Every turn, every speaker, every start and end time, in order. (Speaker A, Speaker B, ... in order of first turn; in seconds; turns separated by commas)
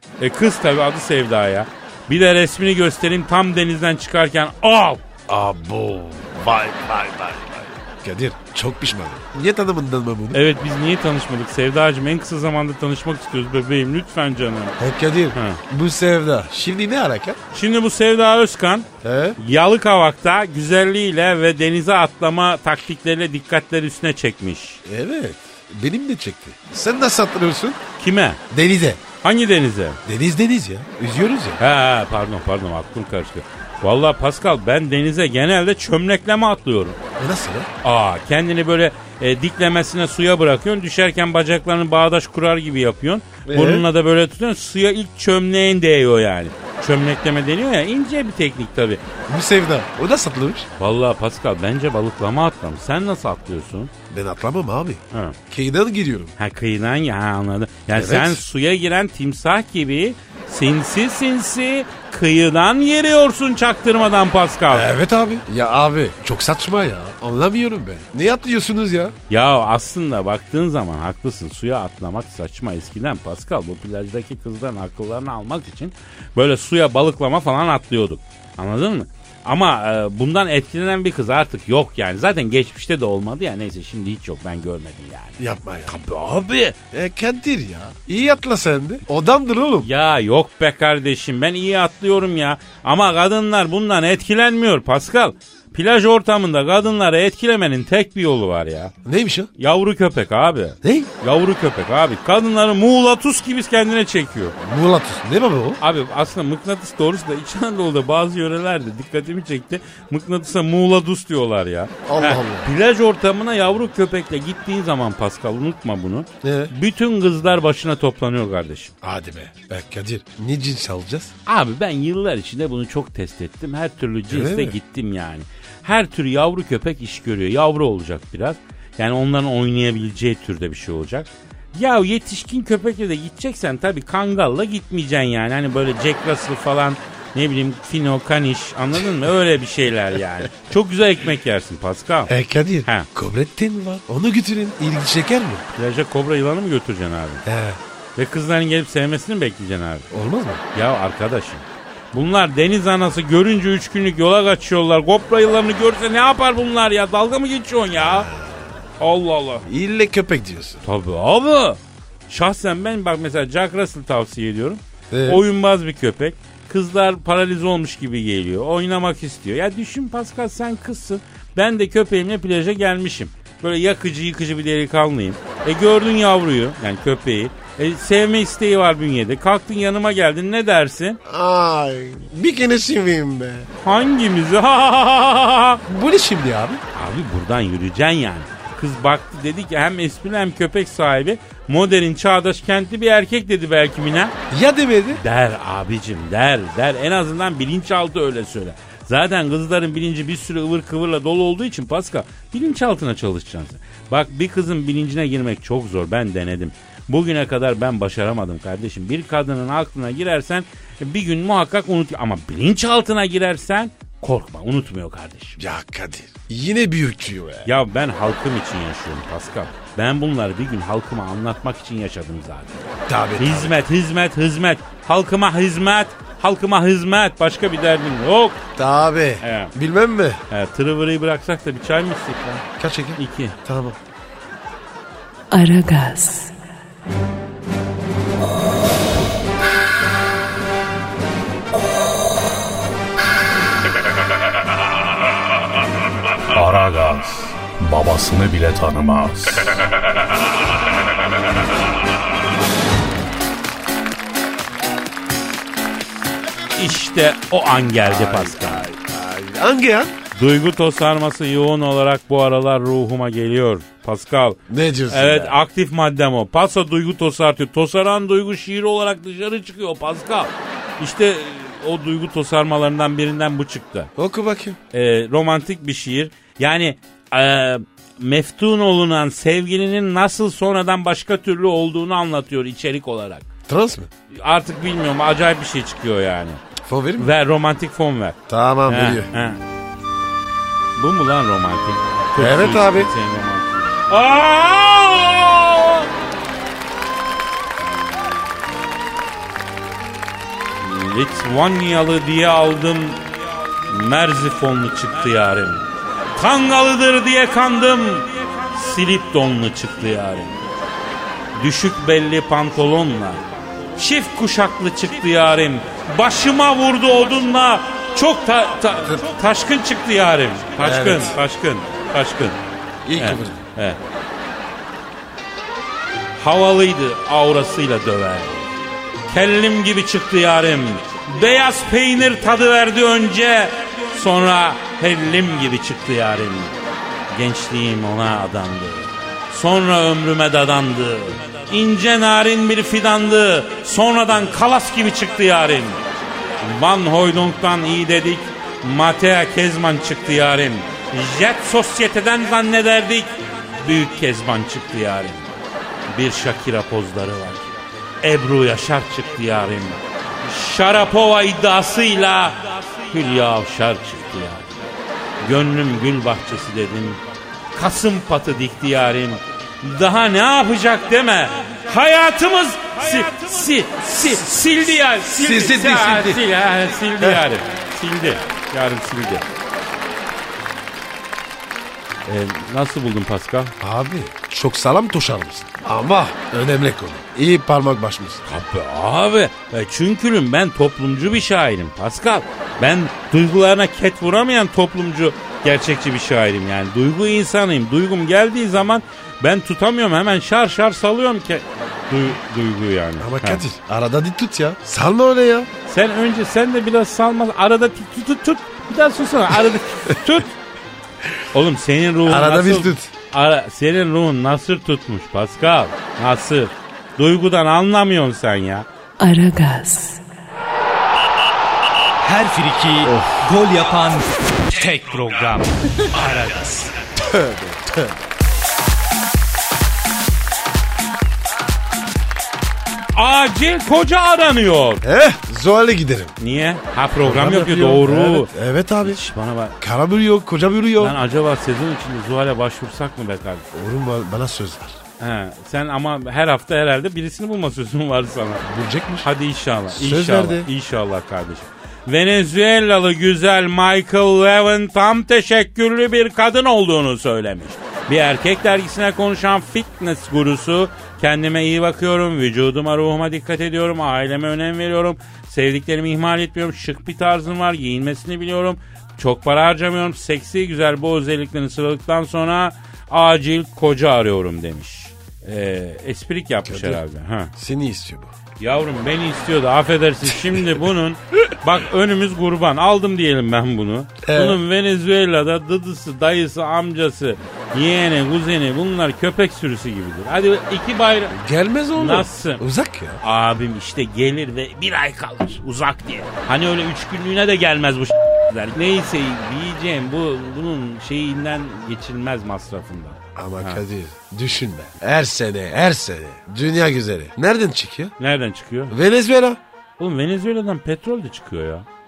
Speaker A: 0.2-5.0, Speaker B: 5.3-10.4, Speaker A: 10.3-14.8, Speaker B: 14.8-17.4, Speaker A: 15.3-15.6, Speaker A: 17.5-18.9, Speaker B: 19.0-19.4, Speaker A: 19.4-24.8, Speaker B: 24.8-27.8, Speaker A: 28.0-28.4, Speaker B: 28.5-29.0, Speaker A: 29.2-30.0, Speaker B: 30.1-31.6, Speaker A: 31.6-37.0, Speaker B: 37.2-37.7, Speaker A: 37.8-49.0, Speaker B: 43.5-43.8, Speaker B: 49.3-50.7, Speaker A: 50.8-53.9, Speaker B: 54.1-56.3, Speaker A: 56.4-64.9, Speaker B: 57.9-58.4, Speaker B: 64.7-69.1, Speaker A: 69.3-86.8, Speaker B: 85.4-85.9, Speaker B: 86.9-89.9, Speaker A: 89.8-98.9, Speaker B: 99.0-99.5, Speaker A: 99.6-104.5, Speaker B: 100.8-101.1, Speaker B: 104.6-105.8, Speaker A: 105.8-118.9, Speaker B: 112.0-112.7, Speaker B: 116.4-116.7, Speaker B: 119.0-121.3, Speaker A: 121.5-142.3, Speaker B: 124.3-124.8, Speaker B: 142.3-145.6, Speaker A: 145.8-147.4, Speaker B: 147.4-147.8, Speaker A: 148.2-150.1, Speaker B: 150.1-150.6, Speaker A: 150.7-158.3, Speaker B: 158.0-158.7, Speaker A: 159.0-159.7, Speaker B: 159.7-160.8, Speaker A: 160.8-181.2, Speaker B: 165.1-165.4, Speaker B: 181.2-183.7, Speaker A: 183.8-185.8, Speaker B: 185.9-186.8, Speaker A: 186.9-194.3, Speaker B: 194.5-195.2, Speaker A: 195.1-215.6, Speaker B: 215.6-217.7, Speaker A: 217.6-228.6, Speaker B: 223.1-223.8, Speaker B: 228.8-230.4, Speaker A: 229.4-229.7, Speaker A: 230.5-232.6, Speaker B: 232.8-234.0, Speaker A: 233.2-233.6, Speaker C: 235.5-236.5, Speaker D: 246.5-249.8, Speaker A: 256.8-258.9, Speaker B: 258.0-260.1, Speaker A: 260.3-264.6, Speaker B: 264.7-265.6, Speaker A: 265.1-274.1, Speaker B: 274.1-274.8, Speaker A: 274.9-283.4, Speaker B: 283.7-284.1, Speaker A: 284.3-286.6, Speaker B: 286.8-287.3, Speaker A: 287.2-289.6, Speaker B: 288.5-289.3, Speaker A: 290.9-296.1, Speaker B: 292.4-293.1, Speaker A: 300.8-303.2, Speaker A: 303.9-310.6, Speaker A: 311.6-322.6, Speaker B: 320.8-321.4, Speaker B: 323.0-323.6, Speaker A: 323.1-324.0, Speaker A: 326.4-328.7, Speaker A: 329.3-336.8, Speaker A: 337.3-346.0, Speaker A: 346.6-355.5, Speaker A: 356.1-357.6, Speaker A: 358.2-364.6, Speaker A: 365.4-367.2, Speaker A: 367.7-379.4, Speaker B: 375.3-376.4, Speaker A: 382.2-383.7, Speaker B: 383.8-388.5, Speaker A: 388.4-403.6, Speaker B: 403.2-405.7, Speaker A: 405.9-410.6, Speaker A: 411.5-418.9, Speaker B: 412.2-413.1, Speaker C: 419.2-420.2, Speaker E: 422.2-426.9, Speaker B: 423.1-423.3, Speaker B: 427.2-428.1, Speaker A: 433.1-435.0, Speaker B: 435.0-436.3, Speaker A: 436.4-438.5, Speaker B: 437.2-439.2, Speaker A: 439.0-439.8, Speaker B: 439.8-441.2, Speaker A: 441.0-443.6, Speaker B: 443.7-445.0, Speaker A: 445.2-448.6, Speaker B: 448.6-449.3, Speaker A: 449.2-477.5, Speaker B: 449.9-450.7, Speaker B: 476.7-477.0, Speaker B: 477.5-478.3, Speaker A: 478.6-491.4, Speaker B: 484.2-484.6, Speaker B: 491.3-493.2, Speaker A: 491.9-492.6, Speaker A: 493.2-503.8, Speaker B: 503.4-508.1, Speaker A: 508.2-508.9, Speaker B: 508.9-509.6, Speaker A: 510.0-511.9